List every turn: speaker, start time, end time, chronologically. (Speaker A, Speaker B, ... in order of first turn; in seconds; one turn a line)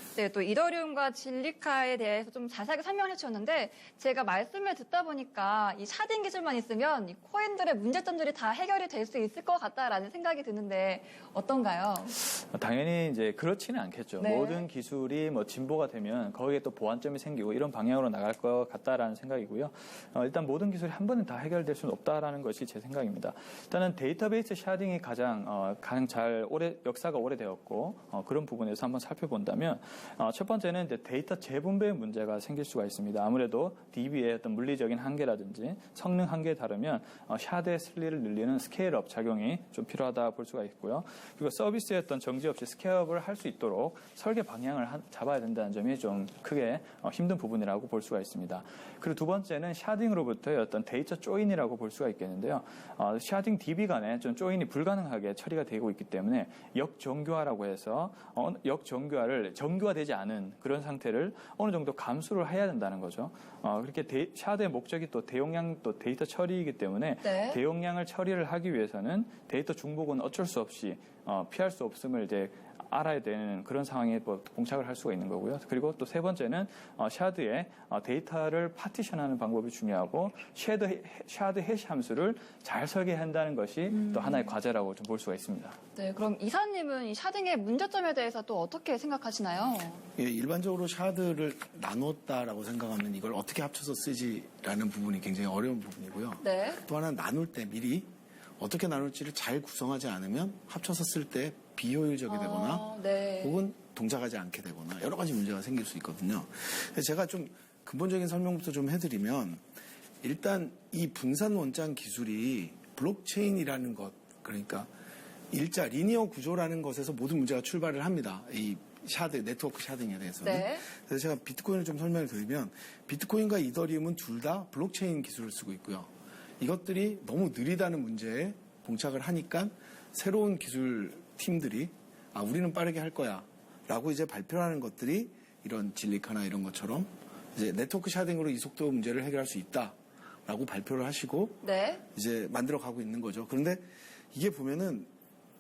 Speaker A: 0.2-12.2
Speaker B: 12.2-85.8
Speaker A: 14.2-14.7
Speaker A: 67.2-67.6
Speaker A: 83.9-84.5
Speaker A: 86.0-90.0
Speaker C: 90.2-109.6
Speaker A: 96.4-96.8
Speaker A: 102.3-103.6
Speaker C: 110.2-114.9
Speaker C: 115.5-139.9
Speaker A: 120.4-120.8
Speaker C: 140.5-145.1
Speaker A: 141.6-142.0